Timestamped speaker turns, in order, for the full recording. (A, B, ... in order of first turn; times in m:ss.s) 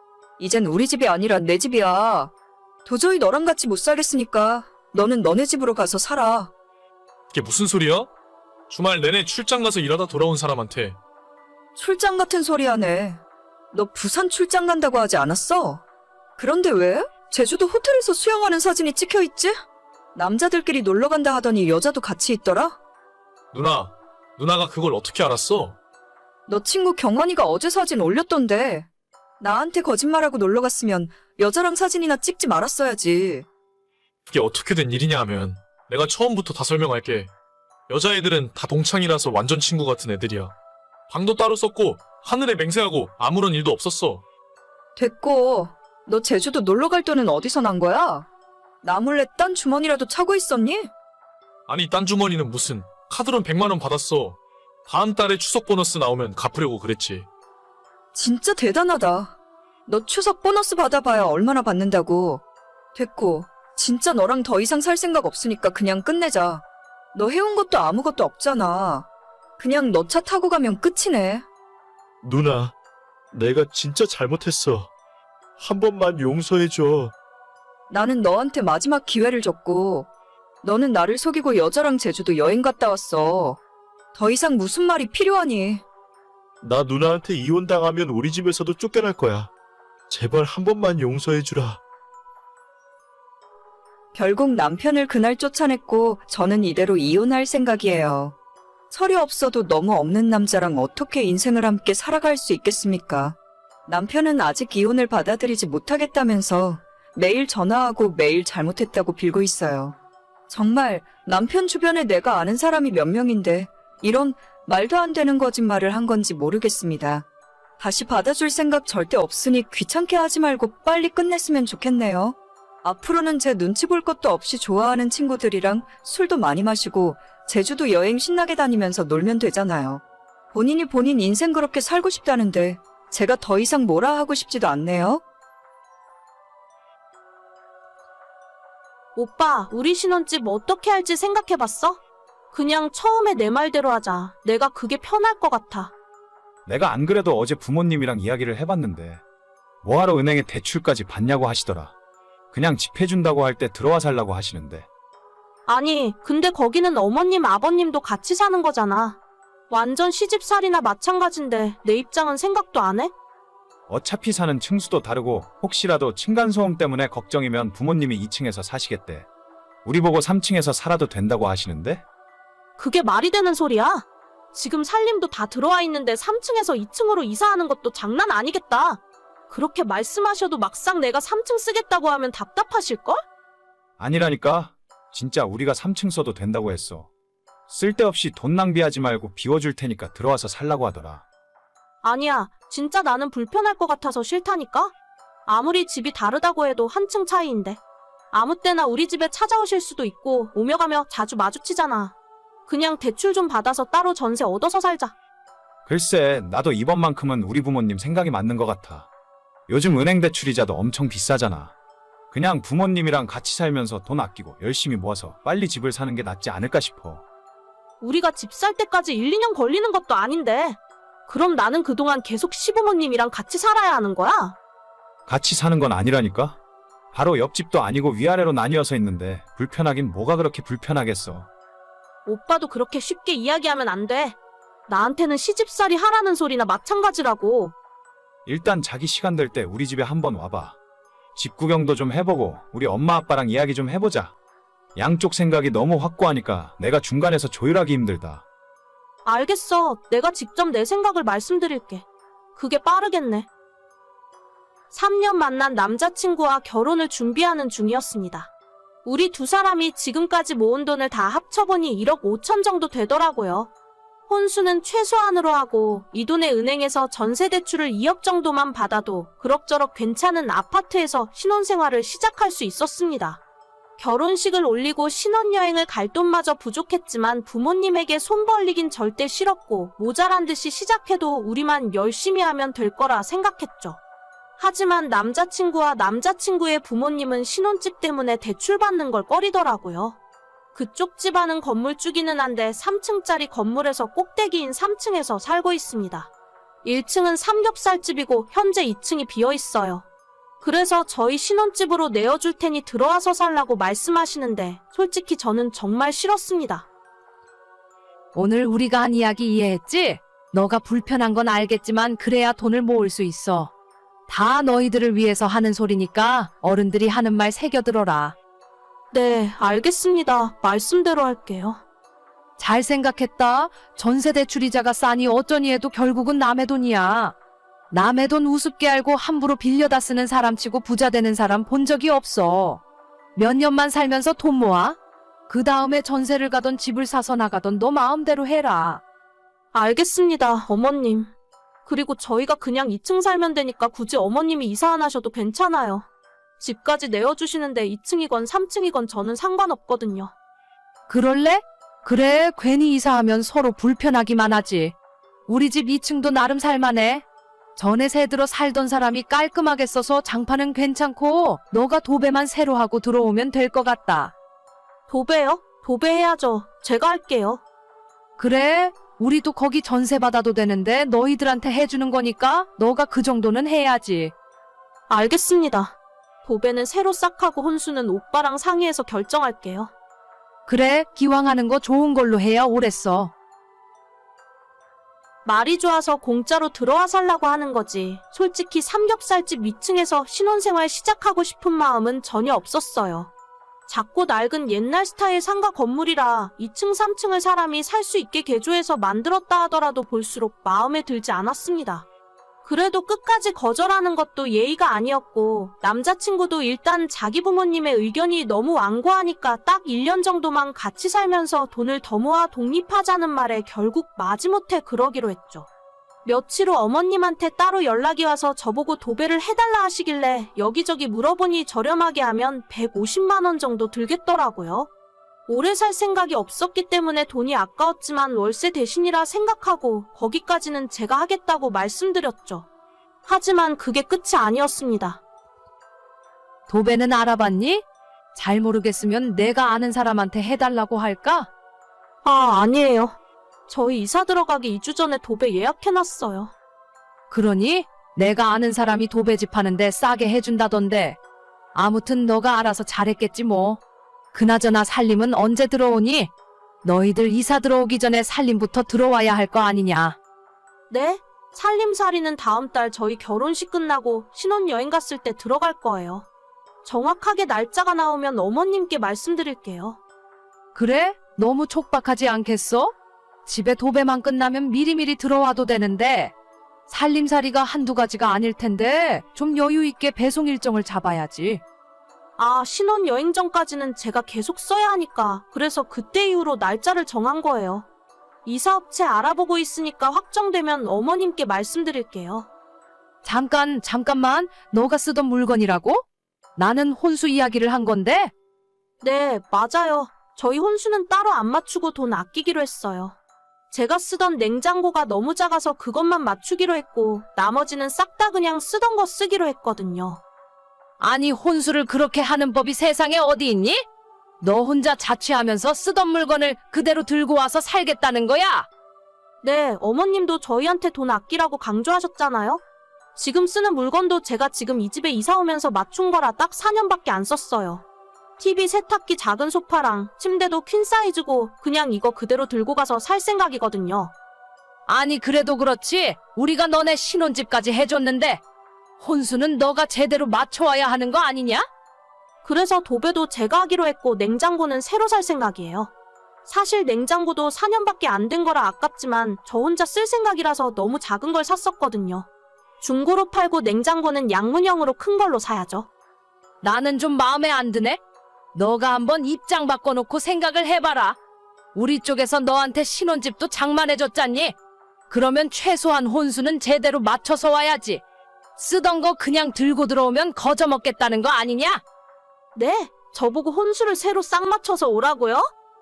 0:00.4-0:02.3 A
0:02.8-0:06.5 A
0:07.3-0:08.1 B
0:08.7-0:11.0 B
0:11.8-0:13.2 A
0:13.7-0:15.8 A
0:16.4-0:19.6 A
0:20.1-0:22.8 A
0:23.5-0:25.8 B
0:26.5-0:28.8 A
0:29.4-0:33.4 A
0:34.3-0:37.3 B
0:37.9-0:40.5 B
0:41.1-0:44.2 B
0:45.0-0:48.3 A
0:48.8-0:50.9 A
0:51.7-0:57.2 B
0:58.1-0:59.3 A
0:59.9-1:02.4 A
1:02.9-1:09.1 A
1:09.6-1:11.4 A
1:12.2-1:12.7 C
1:13.3-1:14.9 C
1:15.6-1:17.1 C
1:17.9-1:20.1 A
1:20.6-1:23.6 A
1:24.1-1:25.8 A
1:26.6-1:29.5 C
1:30.1-1:31.8 C
1:34.1-1:38.3 A
1:38.9-1:43.4 A
1:43.9-1:49.9 A
1:50.5-1:57.2 A
1:57.8-2:10.0 A
2:10.5-2:15.2 A
2:19.2-2:22.0 D
2:22.5-2:25.9 D
2:26.6-2:29.2 E
2:29.8-2:31.9 E
2:32.5-2:34.9 E
2:35.7-2:39.2 D
2:39.7-2:43.1 D
2:43.9-2:49.3 E
2:49.8-2:52.0 E
2:52.8-3:03.2 D
3:04.0-3:07.1 E
3:07.7-3:11.2 E
3:12.0-3:14.9 D
3:15.5-3:17.8 D
3:18.3-3:22.1 D
3:22.7-3:25.1 D
3:25.8-3:29.1 E
3:29.7-3:31.7 E
3:32.3-3:37.2 E
3:38.0-3:44.6 D
3:45.3-3:46.6 E
3:47.1-3:51.5 E
3:52.2-3:54.4 D
3:54.9-3:57.7 D
3:58.4-4:00.8 E
4:01.3-4:04.3 E
4:05.0-4:08.4 E
4:09.2-4:12.0 D
4:12.6-4:13.5 D
4:14.9-4:18.5 D
4:19.0-4:23.7 D
4:24.3-4:33.4 D
4:34.0-4:44.0 D
4:44.6-4:50.2 D
4:50.7-4:56.3 D
4:56.8-5:00.0 D
5:00.6-5:06.8 D
5:08.3-5:13.7 F
5:14.3-5:18.3 F
5:19.1-5:21.8 D
5:22.6-5:27.3 F
5:27.9-5:32.8 F
5:33.4-5:35.0 F
5:35.5-5:39.0 F
5:39.7-5:41.3 D
5:41.8-5:46.0 D
5:46.6-5:50.3 D
5:51.1-5:54.9 F
5:55.5-5:57.2 F
5:57.8-6:04.3 F
6:05.1-6:07.6 D
6:08.4-6:14.3 F
6:15.1-6:19.9 D
6:20.7-6:23.3 F
6:25.4-6:33.3 D
6:33.9-6:42.0 D
6:42.6-6:55.7 D
6:56.2-7:04.9 D
7:05.5-7:12.6 D
7:13.2-7:15.2 D
7:16.7-7:17.8 F
7:18.3-7:21.5 F
7:22.2-7:23.2 D
7:23.7-7:26.5 D
7:27.3-7:31.2 F
7:31.7-7:33.8 F
7:34.3-7:36.3 F
7:36.8-7:40.2 F
7:40.9-7:46.2 D
7:46.8-7:50.0 D
7:50.7-7:52.9 F
7:53.4-7:56.3 F
7:56.9-8:01.6 F
8:02.4-8:07.8 D
8:08.4-8:12.5 D
8:13.2-8:16.0 F
8:16.6-8:18.3 F
8:19.0-8:23.2 D
8:23.7-8:30.2 D
8:31.0-8:33.8 F
8:34.4-8:38.7 F
8:39.4-8:42.6 D
8:43.2-8:47.8 D
8:48.4-8:54.1 D
8:54.9-8:58.4 F
8:59.0-9:01.7 F
9:02.4-9:05.9 D
9:06.4-9:12.2 D
9:12.8-9:15.9 D
9:16.6-9:18.0 F
9:18.5-9:21.2 F
9:21.7-9:24.5 F
9:25.1-9:28.0 F
9:28.6-9:31.8 F
9:32.6-9:35.5 D